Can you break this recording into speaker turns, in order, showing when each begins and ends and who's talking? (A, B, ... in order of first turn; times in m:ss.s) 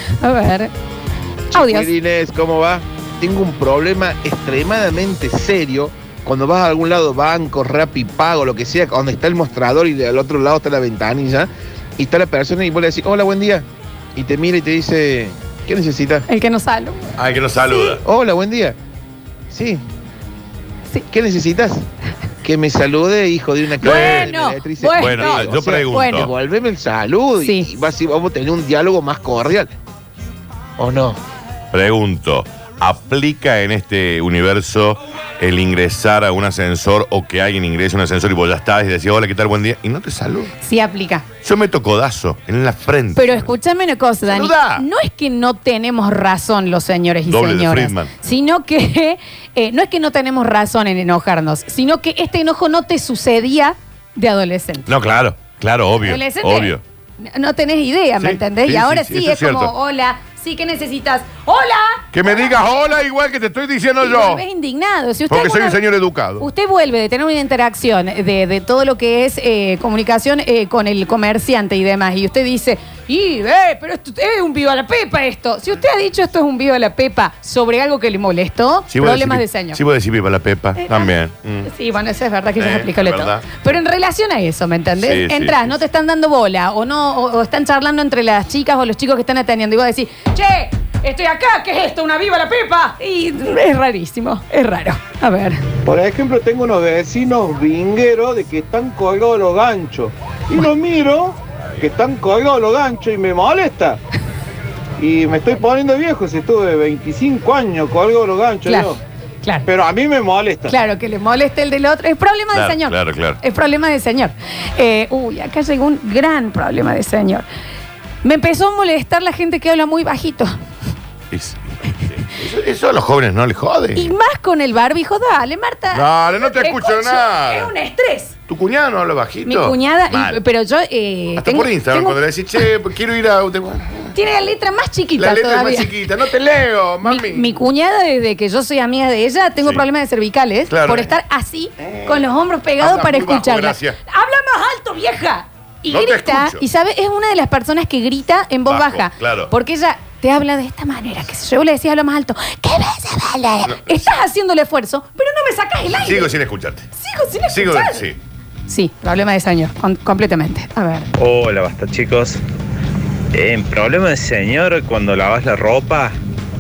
0:00.2-0:00.7 A
0:01.5-0:16.2 B
0:01.5-0:01.9 A
0:16.3-0:17.1 A
0:17.2-0:18.0 C
0:18.0-0:18.8 B
0:19.5-0:19.8 B
0:21.1-0:21.8 B
0:22.4-0:29.7 B
0:23.8-0:26.3 A
0:23.8-0:24.3 C
0:25.0-0:26.3 C
0:27.4-0:27.7 A
0:30.8-0:31.2 B
0:31.7-0:40.5 C
0:40.6-0:41.2 A
0:41.4-0:43.5 C
0:43.2-0:54.9 A
0:44.2-0:44.8 C
0:47.3-0:48.1 C
0:54.9-0:56.8 C
0:56.0-1:02.6 A
0:58.2-0:59.7 C
1:02.1-1:04.4 C
1:04.0-1:05.8 A
1:05.3-1:06.5 C
1:06.4-1:19.8 A
1:18.9-1:21.7 C
1:20.8-1:21.1 A
1:21.7-1:35.6 A
1:22.6-1:23.5 C
1:25.0-1:25.8 C
1:35.8-1:44.0 D
1:45.0-1:49.0 D
1:48.6-1:48.9 A
1:49.6-1:50.8 D
1:50.7-1:57.5 A
1:52.5-1:53.4 C
1:58.2-2:00.5 A
2:01.3-2:04.1 C
2:04.0-2:08.3 A
2:05.9-2:07.7 C
2:08.5-2:10.4 C
2:09.5-2:12.6 A
2:11.4-2:14.1 C
2:14.1-2:15.9 A
2:15.2-2:17.5 C
2:17.0-2:36.3 A
2:20.7-2:21.1 C
2:21.8-2:22.3 C
2:22.8-2:24.0 C
2:25.9-2:26.6 C
2:28.7-2:29.5 C
2:33.7-2:34.2 C
2:35.9-2:36.9 C
2:37.0-2:38.0 A
2:37.5-2:38.2 C
2:38.7-2:41.1 A
2:41.2-2:42.4 E
2:43.3-2:46.2 E